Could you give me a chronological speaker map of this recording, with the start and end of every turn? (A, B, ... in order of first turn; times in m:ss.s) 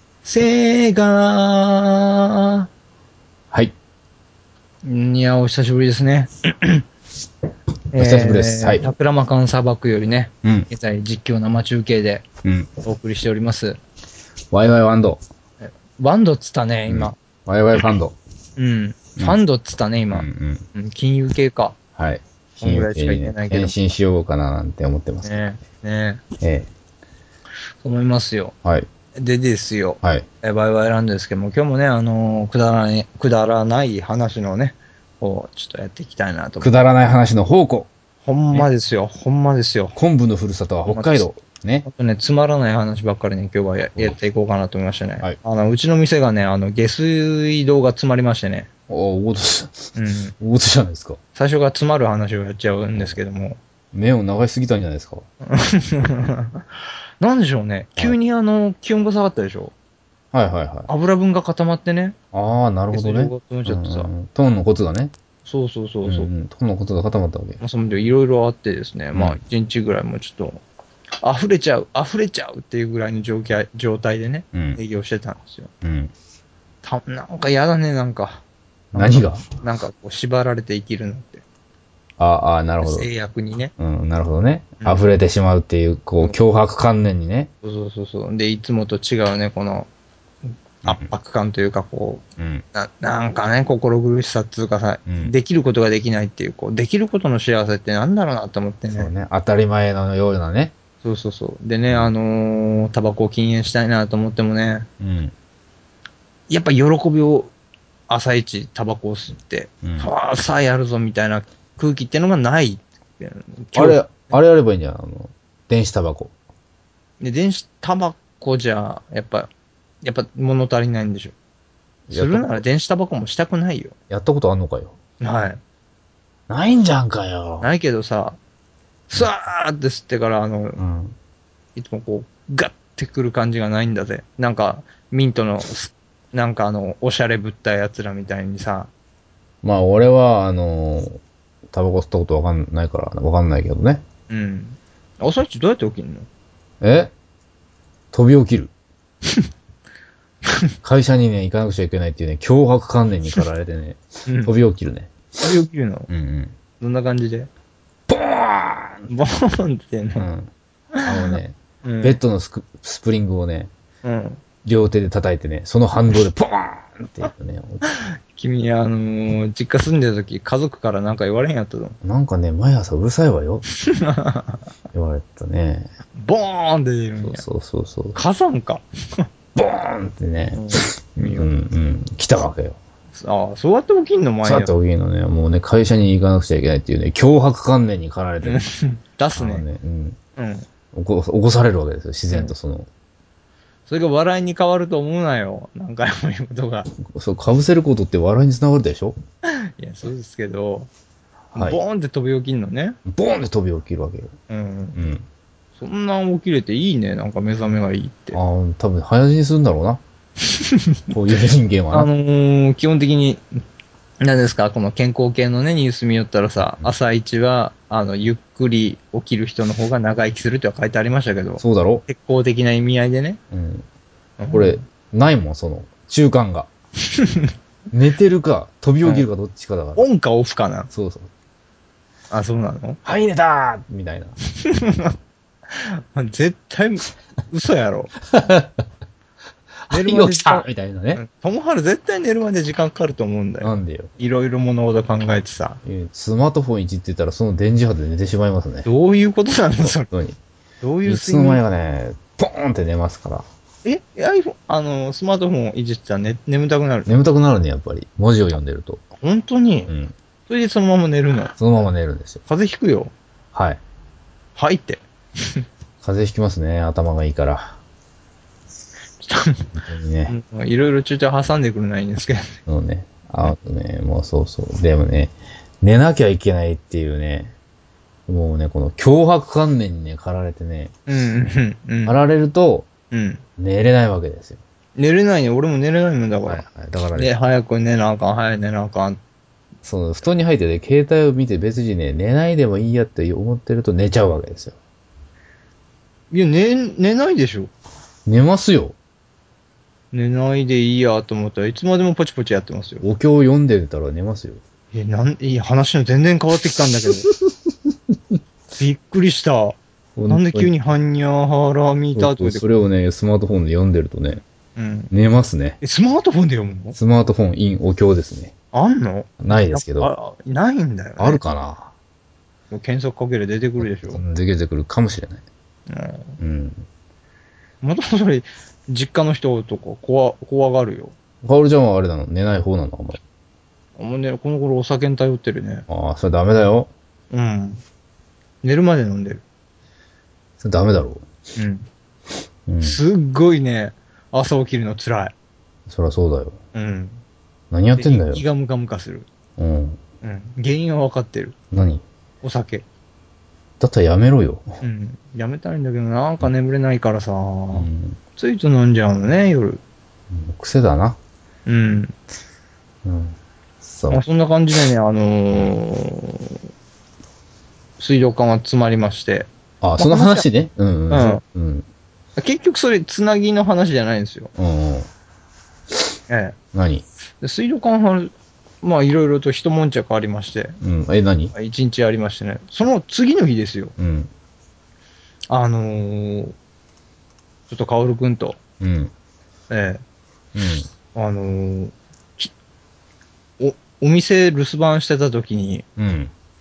0:00.2-0:02.6 A
0:04.8-0:06.8 A
0:07.9-0:12.2 A
0:08.0-0:08.9 B
0:10.4-0:10.7 B
0:12.4-0:12.7 B
0:12.8-0:13.8 A
0:14.5-0:15.2 B
0:15.6-0:17.1 A
0:16.9-0:18.2 B
0:18.6-0:21.8 A
0:20.1-0:20.6 B
0:22.0-0:25.4 B
0:22.6-0:23.8 A
0:25.2-0:26.2 A
0:26.4-0:26.7 B
0:27.8-0:28.5 A
0:29.2-0:36.8 A
0:36.6-0:37.9 B
0:38.2-0:40.0 A
0:39.9-0:41.9 B
0:40.9-0:41.2 A
0:41.8-0:48.7 A
0:48.9-0:51.2 B
0:49.9-0:50.3 A
0:51.3-0:53.6 A
0:53.9-0:55.2 B
0:55.4-0:59.7 A
1:00.3-1:00.9 B
1:00.9-1:02.2 A
1:02.3-1:05.1 B
1:02.9-1:04.1 A
1:05.4-1:06.3 A
1:06.0-1:07.6 B
1:07.6-1:10.6 A
1:09.1-1:09.4 B
1:11.2-1:15.7 A
1:14.5-1:14.8 B
1:15.8-1:16.1 B
1:16.8-1:18.4 A
1:18.9-1:19.4 B
1:18.9-1:21.4 A
1:22.2-1:23.1 B
1:22.8-1:23.7 A
1:23.8-1:27.5 B
1:24.8-1:25.0 A
1:27.6-1:29.9 A
1:30.8-1:32.2 A
1:30.8-1:31.1 B
1:32.4-1:32.6 B
1:32.7-1:39.1 A
1:35.1-1:35.3 B
1:38.9-1:40.7 B
1:41.0-1:44.9 A
1:45.0-1:45.3 B
1:46.5-1:47.5 A
1:48.1-1:54.2 A
1:49.8-1:50.1 B
1:53.7-1:56.3 B
1:57.2-1:59.5 A
2:00.0-2:01.3 A
2:02.1-2:02.6 B
2:02.1-2:03.9 A
2:04.1-2:05.0 B
2:05.2-2:05.6 A
2:06.5-2:07.7 B
2:07.6-2:08.4 A
2:09.1-2:10.8 A
2:10.8-2:11.2 B
2:11.7-2:18.9 A
2:19.6-2:24.0 B
2:24.3-2:26.3 A
2:26.8-2:27.1 B
2:28.1-2:28.7 B
2:30.8-2:35.4 B
2:34.2-2:34.5 A
2:35.4-2:36.1 A
2:36.1-2:36.6 B
2:36.8-2:37.5 A
2:38.1-2:39.1 B
2:39.1-2:40.3 A
2:40.2-2:40.5 B
2:41.0-2:42.2 A
2:41.0-2:43.7 B
2:44.0-2:44.4 A
2:44.6-2:47.9 B
2:47.9-2:52.0 A
2:52.0-2:53.6 B
2:53.8-2:54.6 A
2:54.9-2:55.9 B
2:56.2-2:57.4 A
2:57.2-2:58.2 B
2:58.1-2:59.3 A
2:59.5-3:02.8 B
3:00.5-3:01.5 A
3:03.1-3:04.7 A
3:04.4-3:08.6 B
3:08.4-3:09.6 A
3:09.4-3:10.2 B
3:10.4-3:10.6 A
3:10.9-3:12.9 B
3:13.9-3:16.9 A
3:17.1-3:19.2 B
3:19.8-3:20.9 A
3:21.5-3:21.8 B
3:21.5-3:23.0 A
3:23.0-3:24.3 B
3:24.5-3:25.0 A
3:24.9-3:25.2 B
3:25.8-3:28.4 A
3:28.3-3:30.0 B
3:30.5-3:31.0 A
3:31.1-3:32.1 B
3:31.9-3:33.4 A
3:34.2-3:43.4 A
3:41.6-3:42.0 B
3:43.5-3:43.9 B
3:44.4-3:44.8 A
3:44.5-3:46.7 B
3:47.1-3:47.5 A
3:47.9-3:50.1 B
3:50.0-3:50.9 A
3:50.9-3:51.3 B
3:52.3-3:53.0 A
3:53.0-3:54.4 B
3:54.6-3:55.1 A
3:55.7-3:58.1 A
3:58.3-3:58.8 B
3:59.9-4:01.2 B
3:59.9-4:05.8 A
4:03.6-4:04.1 B
4:05.8-4:08.9 B
4:08.8-4:10.1 A
4:09.8-4:10.4 B
4:10.8-4:11.6 A
4:11.0-4:13.4 B
4:13.8-4:17.1 A
4:17.0-4:19.0 B
4:19.2-4:19.9 A
4:19.9-4:20.1 B
4:20.5-4:21.5 A
4:21.6-4:22.4 B
4:22.5-4:23.1 A
4:23.5-4:23.8 B
4:24.6-4:25.6 A
4:26.0-4:27.8 B
4:29.2-4:29.7 A
4:29.7-4:30.4 B
4:30.3-4:32.6 A
4:32.7-4:37.5 B
4:38.3-4:40.9 B
4:41.1-4:42.2 A
4:42.0-4:42.9 B
4:43.1-4:43.4 A
4:43.6-4:44.6 B
4:45.0-4:49.2 A
4:46.4-4:47.3 B
4:49.8-4:54.8 B
4:56.3-4:57.7 A
4:58.2-4:59.0 B
5:00.1-5:03.0 A
5:03.0-5:04.6 B
5:04.9-5:07.3 A
5:07.2-5:07.7 B
5:08.8-5:09.8 A
5:10.2-5:10.7 B
5:10.3-5:12.7 A
5:12.1-5:14.4 B
5:14.8-5:15.1 A
5:15.1-5:15.8 B
5:15.8-5:17.0 A
5:17.0-5:18.5 B
5:18.7-5:21.4 A
5:19.4-5:20.1 B
5:21.2-5:21.9 B
5:22.7-5:24.2 A
5:23.8-5:25.4 B
5:25.9-5:26.4 A
5:26.4-5:26.8 B
5:27.8-5:31.1 A
5:31.4-5:33.2 B
5:34.0-5:35.8 A
5:35.9-5:36.9 B
5:37.3-5:37.8 A
5:38.6-5:39.4 A
5:40.6-5:41.3 B
5:41.6-5:41.9 A
5:42.7-5:43.0 B
5:42.8-5:45.3 A
5:45.9-5:46.6 B
5:46.7-5:47.2 A
5:47.7-5:48.4 B
5:47.9-5:49.3 A
5:49.6-5:50.0 B
5:50.2-5:51.5 A
5:51.7-5:52.0 B
5:52.4-5:52.8 A
5:53.8-5:54.8 B
5:54.8-5:59.8 A
5:57.7-5:58.2 B
6:00.3-6:01.2 B
6:01.6-6:02.1 A
6:03.0-6:04.2 B
6:04.1-6:06.6 A
6:08.0-6:10.4 A
6:09.8-6:11.8 B
6:11.1-6:11.4 A
6:12.4-6:14.5 A
6:14.6-6:15.1 B
6:16.3-6:16.6 A
6:16.7-6:17.0 B
6:17.4-6:20.8 A
6:20.8-6:21.5 B
6:21.5-6:23.9 A
6:24.0-6:24.3 B
6:25.5-6:26.5 A
6:27.7-6:28.6 A
6:28.8-6:29.1 B
6:29.7-6:30.0 A
6:30.5-6:30.9 B
6:31.1-6:32.5 A
6:33.6-6:35.8 A
6:36.0-6:36.3 B